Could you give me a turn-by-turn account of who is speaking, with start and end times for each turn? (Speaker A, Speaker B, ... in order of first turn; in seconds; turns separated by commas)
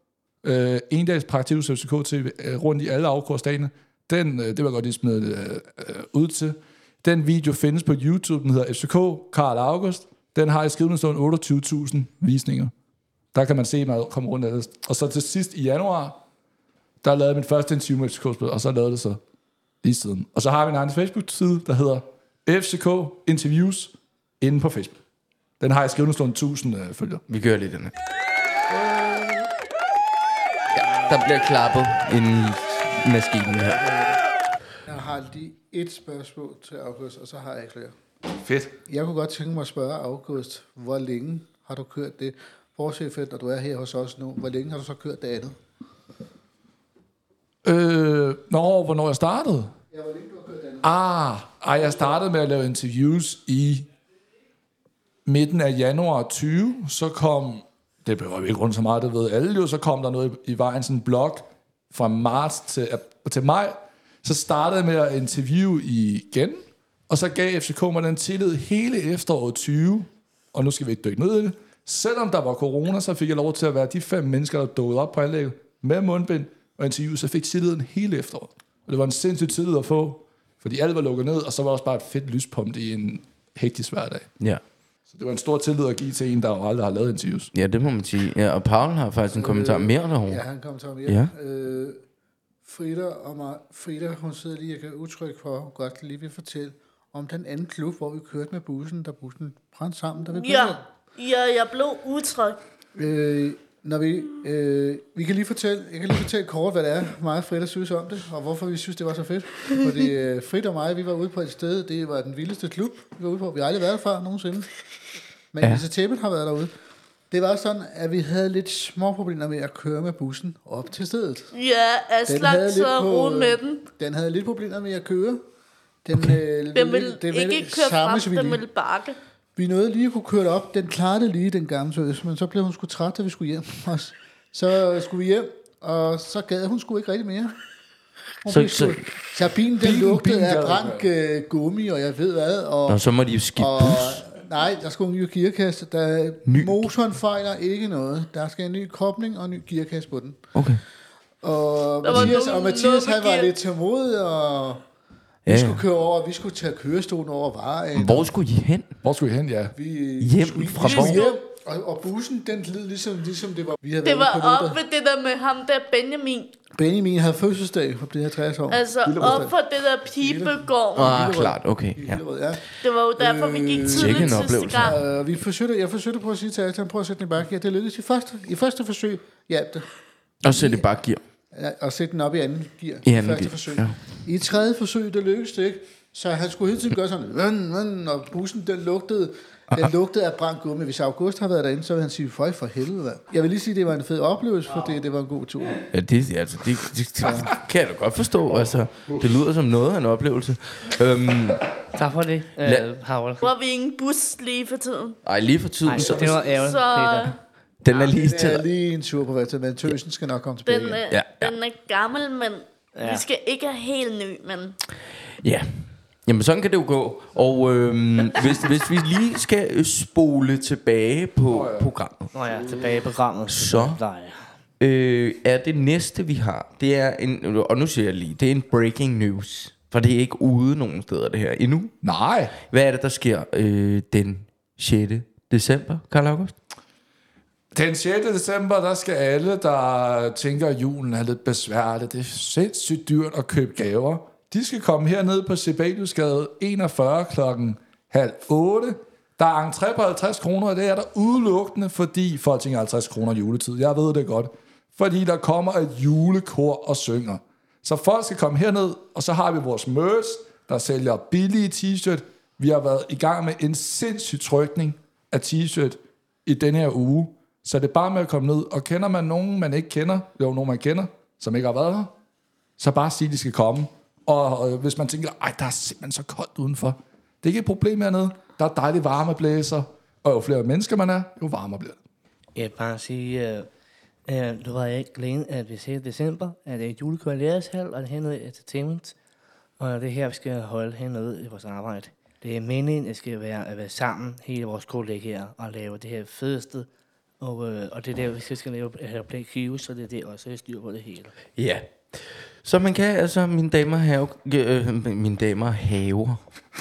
Speaker A: 0.4-12.7, Speaker A: 13.3-16.2, Speaker A: 17.0-19.2, Speaker A: 19.8-25.0, Speaker A: 25.6-27.2, Speaker B: 27.3-27.9, Speaker C: 28.7-29.5, Speaker B: 30.7-33.8, Speaker C: 33.5-34.2, Speaker C: 34.8-38.0, Speaker A: 38.4-38.7, Speaker C: 38.9-45.6, Speaker A: 47.6-49.7, Speaker C: 49.9-50.9, Speaker A: 50.8-53.9, Speaker C: 51.8-52.1, Speaker A: 55.2-84.3, Speaker A: 85.1-87.5, Speaker B: 87.5-90.4, Speaker C: 89.3-92.0, Speaker B: 91.0-91.3, Speaker C: 92.6-100.8, Speaker D: 100.3-102.6, Speaker C: 102.9-114.7, Speaker C: 115.5-116.7, Speaker C: 117.3-121.5, Speaker D: 121.5-123.8, Speaker C: 122.3-125.4, Speaker C: 126.0-128.6, Speaker D: 126.7-129.2, Speaker C: 129.6-137.6, Speaker C: 138.4-143.0, Speaker B: 138.5-139.0, Speaker A: 139.8-141.1, Speaker B: 142.9-144.2, Speaker C: 143.6-150.4, Speaker B: 146.5-146.9, Speaker B: 150.5-150.8, Speaker C: 151.4-154.8, Speaker D: 152.0-153.5, Speaker B: 155.4-155.8, Speaker C: 155.5-158.3, Speaker B: 157.9-158.9, Speaker A: 159.0-159.7, Speaker C: 159.7-164.8, Speaker B: 160.2-161.2, Speaker D: 160.8-161.4, Speaker D: 164.0-166.5, Speaker C: 166.7-179.9, Speaker D: 168.7-171.2, Speaker A: 169.0-169.5, Speaker B: 170.9-172.2, Speaker D: 172.8-175.0, Speaker B: 173.9-175.0, Speaker B: 180.4-181.2, Speaker C: 180.4-180.8, Speaker C: 181.5-195.9, Speaker B: 183.0-184.1, Speaker B: 195.9-201.8, Speaker C: 197.2-197.5, Speaker E: 201.9-203.5, Speaker B: 202.6-202.9, Speaker D: 203.4-205.2, Speaker B: 205.2-206.6, Speaker E: 205.8-207.3, Speaker D: 206.5-207.3, Speaker B: 207.8-208.6, Speaker C: 207.9-211.0, Speaker D: 210.7-214.8, Speaker B: 211.1-211.6, Speaker E: 212.9-213.2, Speaker B: 215.4-222.3, Speaker A: 221.5-221.9, Speaker E: 222.3-224.6, Speaker B: 223.5-224.0, Speaker B: 224.8-231.9, Speaker A: 232.0-232.5, Speaker B: 232.7-236.5, Speaker A: 237.7-272.1, Speaker A: 272.8-282.0, Speaker E: 282.5-283.7, Speaker E: 284.3-289.1, Speaker E: 289.8-296.9, Speaker E: 297.4-301.3, Speaker B: 301.6-306.4